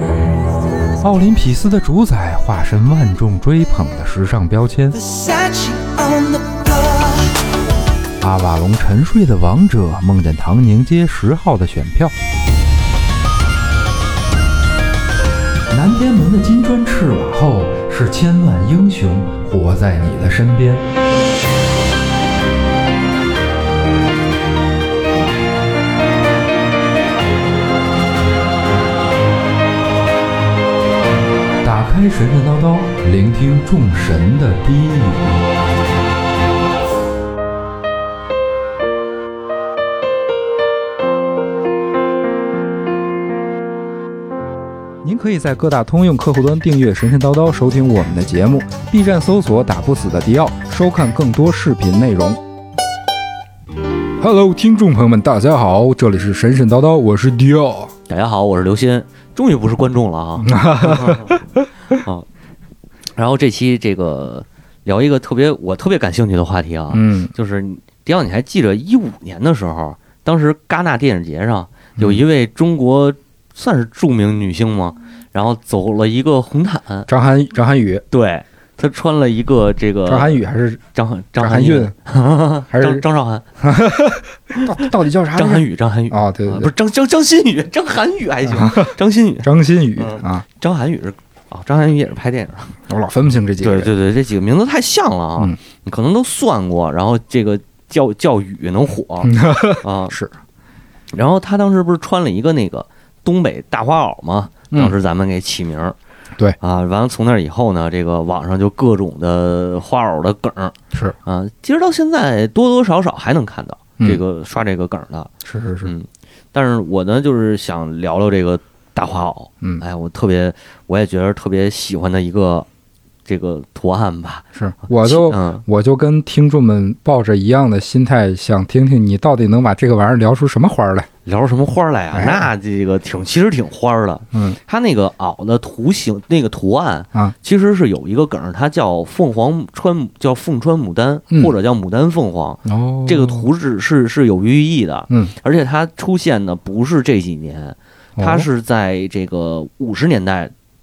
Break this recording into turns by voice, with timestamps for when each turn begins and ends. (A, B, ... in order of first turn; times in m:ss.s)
0:01.0-0:05.0 A
0:04.9-0:07.3 B
0:08.2-0:12.1 A
0:15.7-0:20.8 A
0:31.6-0:35.4 A
0:45.0-0:52.4 A
0:54.2-0:57.9 A
0:58.1-1:01.4 C
1:00.4-1:01.7 A
1:01.9-1:02.2 C
1:03.2-1:17.1 C
1:06.9-1:07.3 A
1:12.0-1:12.2 A
1:17.1-1:18.0 A
1:18.1-1:20.4 C
1:20.1-1:20.8 A
1:20.9-1:23.4 C
1:21.4-1:21.9 A
1:22.7-1:23.0 A
1:23.6-1:26.7 A
1:24.5-1:32.8 C
1:28.4-1:30.4 A
1:32.9-1:33.9 A
1:33.6-1:40.1 C
1:39.2-1:40.3 A
1:41.1-1:45.9 C
1:46.6-1:55.3 C
1:55.4-1:55.9 A
1:55.8-2:02.7 C
2:03.2-2:05.6 C
2:04.5-2:11.1 A
2:11.2-2:30.5 C
2:12.1-2:12.5 A
2:14.3-2:14.6 A
2:22.6-2:23.5 A
2:28.2-2:28.5 A